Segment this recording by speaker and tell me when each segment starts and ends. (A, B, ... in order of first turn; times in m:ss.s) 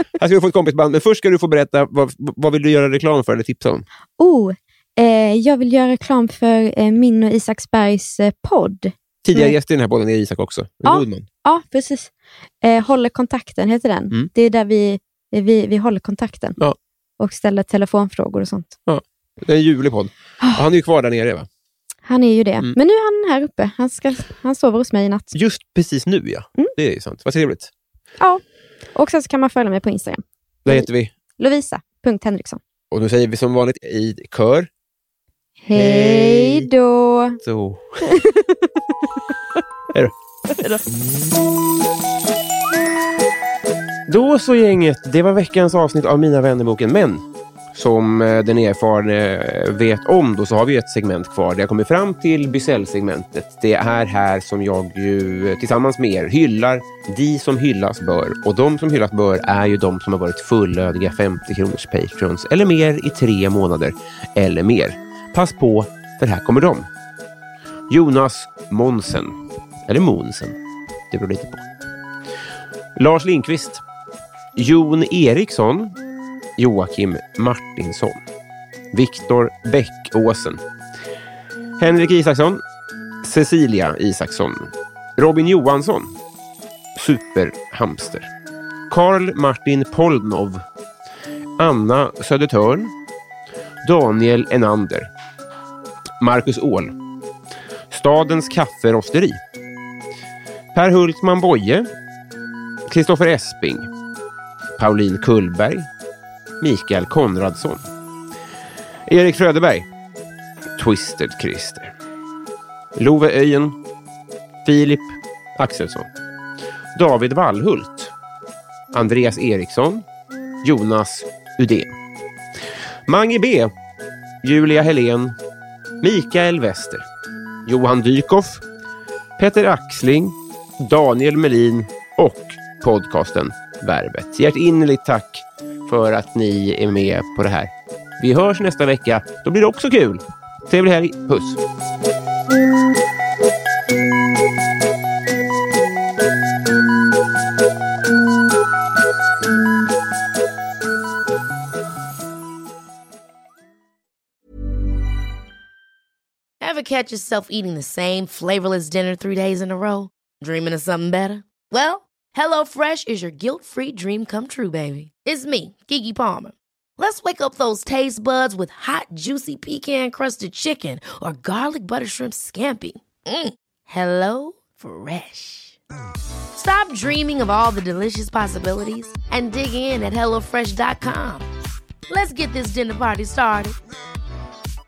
0:00.2-0:03.8 A
0:04.2-0:09.6 B
0:09.2-0:11.3 A
0:10.8-0:12.1 B
0:12.6-0:16.6 B
0:17.2-0:18.7 B
0:18.9-0:21.5 A
0:22.0-0:25.3 B
0:25.3-0:27.7 A
0:28.9-0:32.6 B
0:30.6-0:31.1 A
0:32.9-0:34.7 A
0:35.6-0:37.4 B
0:35.7-0:36.7 A
0:37.4-0:38.0 A
0:38.0-0:38.7 B
0:40.5-0:40.8 B
0:44.1-1:06.9 A
1:07.9-1:10.6 A
1:11.1-1:11.7 A
1:13.0-1:13.8 A
1:14.6-1:16.0 A
1:16.6-1:18.2 A
1:18.9-1:20.6 A
1:21.8-1:22.6 A
1:23.2-1:26.1 A
1:27.0-1:28.3 A
1:28.9-1:30.6 A
1:31.6-1:32.9 A
1:33.8-1:35.1 A
1:36.2-1:37.0 A
1:37.9-1:39.4 A
1:40.7-1:41.9 A
1:42.9-1:43.9 A
1:44.8-1:45.9 A
1:46.6-1:47.8 A
1:49.0-1:49.9 A
1:50.8-1:51.9 A
1:53.0-1:53.8 A
1:54.6-1:56.1 A
1:57.0-1:58.1 A
1:58.9-2:00.0 A
2:00.6-2:01.9 A
2:03.0-2:03.7 A
2:04.4-2:05.4 A
2:06.0-2:07.0 A
2:07.7-2:08.6 A
2:09.4-2:21.6 A
2:36.6-2:55.8 C
2:56.6-3:01.4 C
3:02.1-3:03.8 C